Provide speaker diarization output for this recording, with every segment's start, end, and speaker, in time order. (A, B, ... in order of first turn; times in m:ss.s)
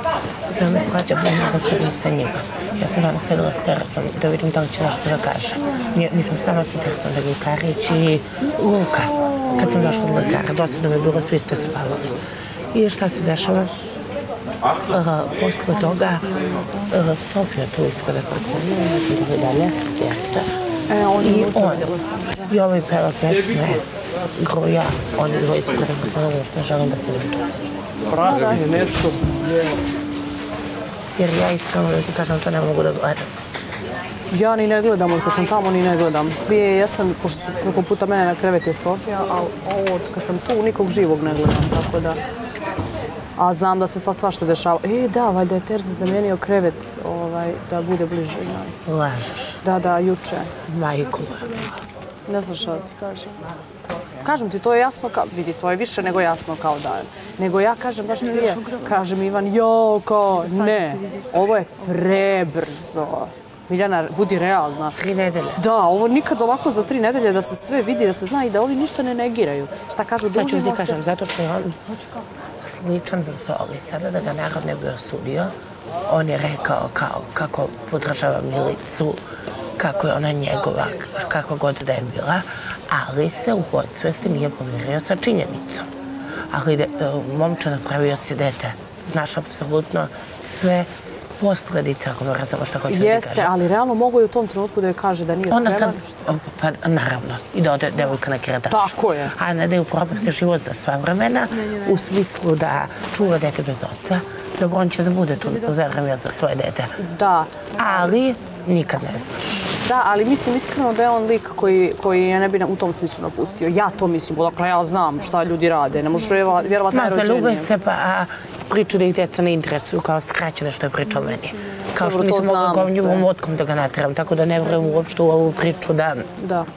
0:00.5-0:12.1 A
0:12.7-0:13.7 A
0:14.9-0:20.5 A
0:20.9-0:22.6 B
0:21.2-0:21.9 A
0:22.5-0:23.8 A
0:24.4-0:27.5 A
0:28.1-0:29.2 B
0:31.2-0:33.3 A
0:34.3-0:42.2 B
0:43.4-0:48.8 B
0:48.9-0:49.6 A
0:49.6-0:50.5 B
0:50.7-0:51.8 A
0:52.3-0:53.5 B
0:54.2-1:05.0 B
1:05.0-1:05.6 A
1:05.6-1:11.0 B
1:10.2-1:11.8 A
1:12.6-1:15.5 A
1:16.1-1:19.2 A
1:19.8-1:25.9 A
1:26.5-1:33.5 A
1:32.9-1:36.0 B
1:35.5-1:47.0 A
1:38.7-1:39.3 B
1:47.0-1:48.2 B
1:47.8-1:49.7 A
1:49.8-1:57.7 B
1:56.9-2:06.3 A
2:02.0-2:03.3 B
2:06.4-2:06.7 B